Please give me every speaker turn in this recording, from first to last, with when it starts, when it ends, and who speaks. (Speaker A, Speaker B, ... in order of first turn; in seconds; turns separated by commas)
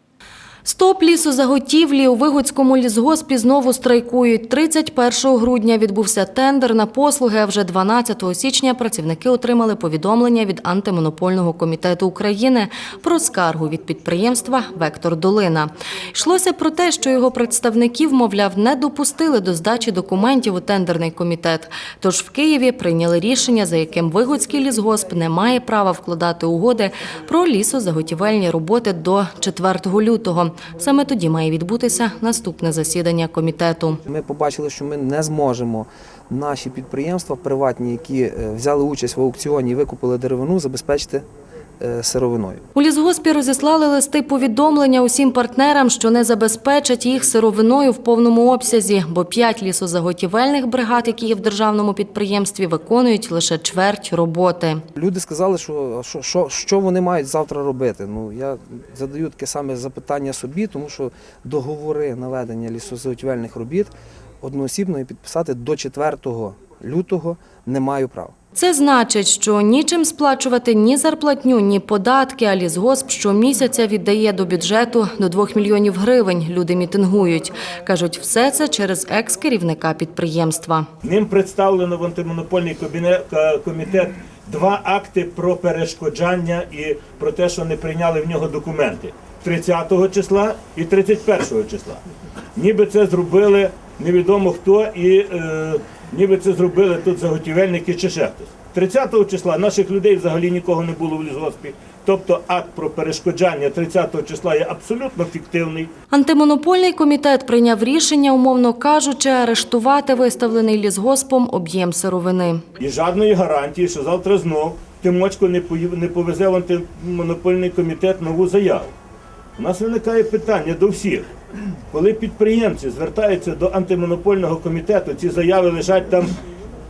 Speaker A: 0.6-34.0, Speaker B: 34.1-41.2, Speaker B: 41.8-42.6, Speaker A: 42.7-54.8, Speaker B: 55.0-68.3, Speaker A: 68.5-80.9, Speaker C: 81.0-92.0, Speaker C: 92.5-105.9, Speaker A: 106.1-112.6, Speaker C: 112.8-118.9, Speaker C: 119.6-121.3, Speaker C: 121.9-126.3